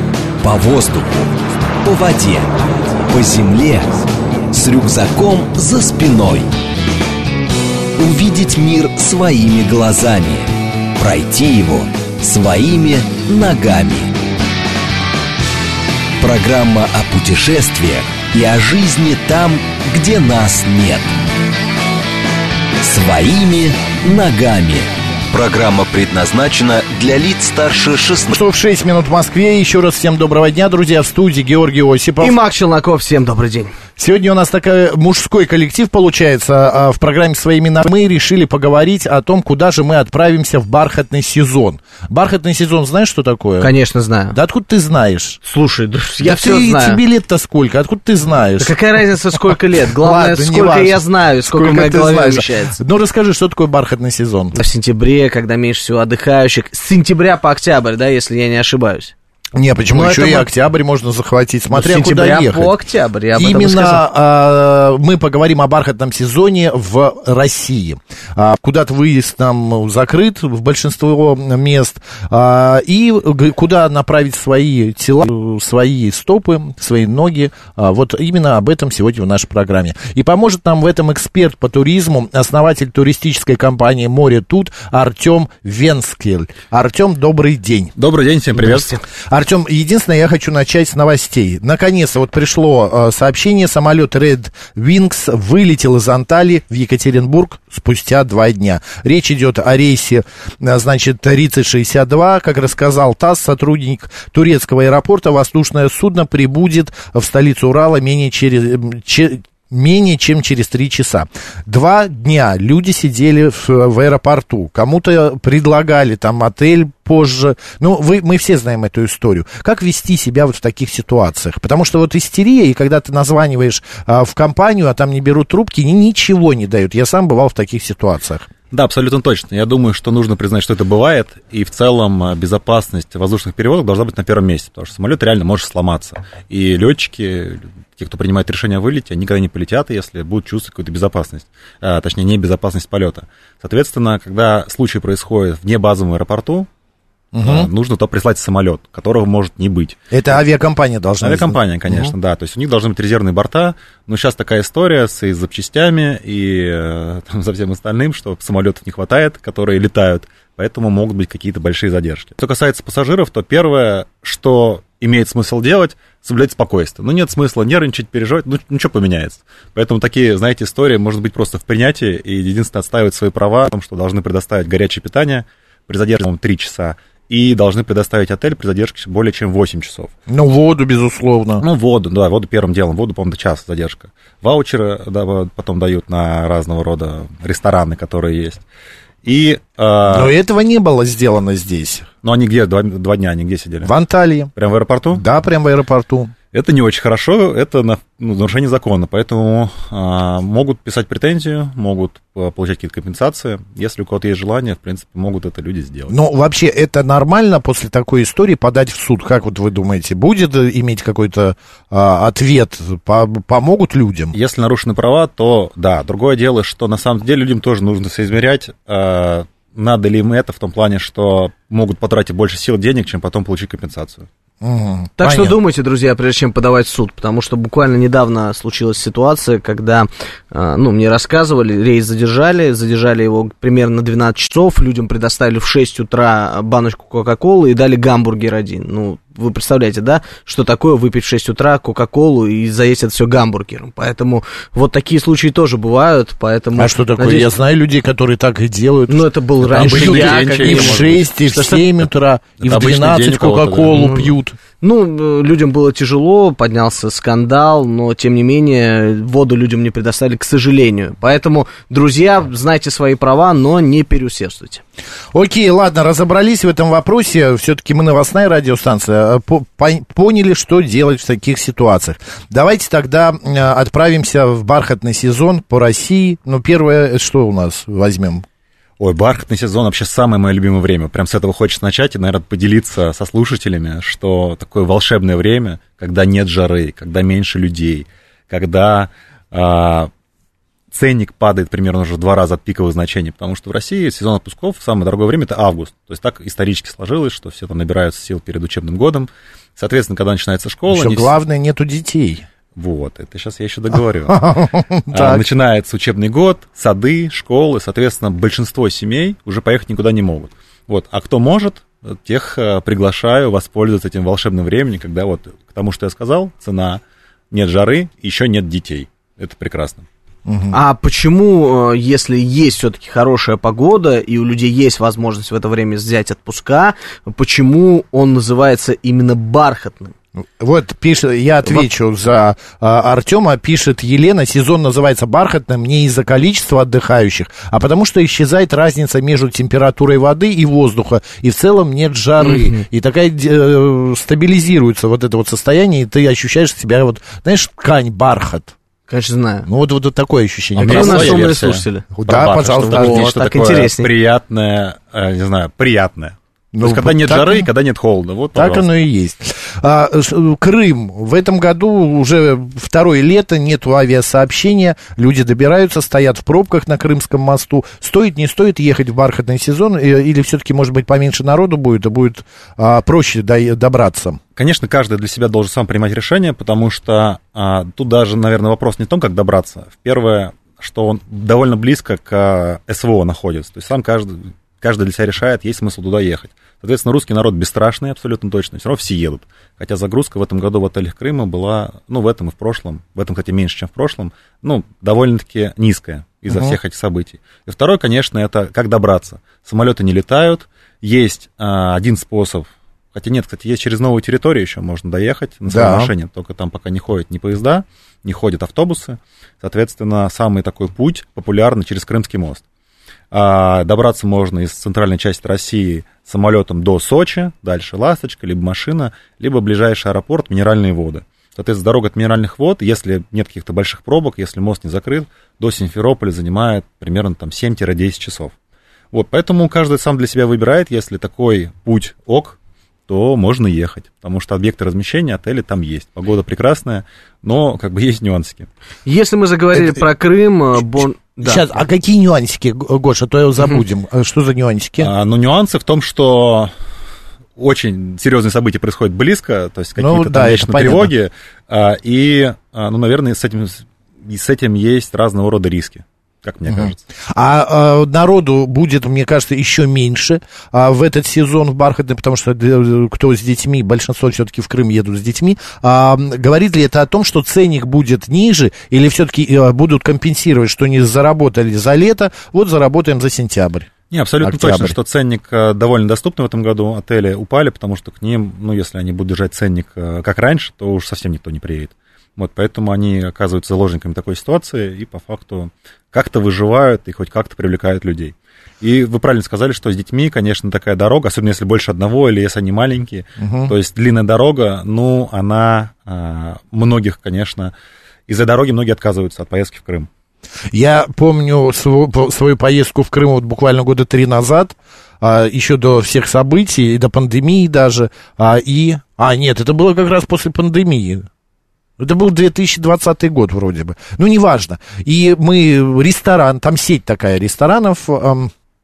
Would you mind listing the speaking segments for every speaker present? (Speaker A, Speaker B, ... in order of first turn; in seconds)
Speaker A: 0.4-6.5, 8.0-14.1, 16.2-21.2, 22.8-28.3
Speaker B: 28.3-32.4, 34.0-43.7, 44.3-45.4, 46.2-48.7, 50.0-54.6, 59.5-62.7, 63.4-87.9, 88.6-128.5, 147.3-147.7, 150.1-152.1, 180.3-181.6, 190.1-192.1, 193.8-194.5, 195.1-196.3, 206.1-214.3, 224.6-225.6, 246.8-254.6, 265.3-278.4, 300.9-302.4, 304.3-305.4, 320.5-320.8, 330.6-348.7, 349.7-351.4, 352.1-353.4, 356.7-357.7, 358.6-374.4, 396.5-396.8, 405.7-406.1, 439.7-440.0, 441.4-445.1, 450.0-451.1, 456.7-473.9, 474.4-474.9, 493.4-493.7, 500.7-511.3, 512.0-518.5
Speaker C: 32.2-33.7, 43.6-44.4, 45.5-47.0, 48.6-52.8, 54.5-59.1, 59.9-60.5, 61.7-64.0, 225.2-247.5, 249.1-251.8, 253.9-264.8, 320.7-330.1, 342.4-342.8, 349.1-349.7, 350.8-352.1, 352.9-354.1, 439.1-441.6
Speaker D: 88.0-89.0, 128.7-146.7, 147.4-150.0, 151.2-180.1, 181.6-188.6, 189.2-190.3, 192.2-193.9, 194.6-195.2, 196.5-206.1, 214.3-224.3, 249.7-251.3, 252.6-254.1, 279.0-290.1, 290.9-301.3, 302.8-320.1, 350.8-358.9, 374.6-412.6, 413.3-428.5, 429.1-432.6, 433.1-438.7, 445.0-446.7, 447.6-457.0, 474.1-497.7, 498.3-500.1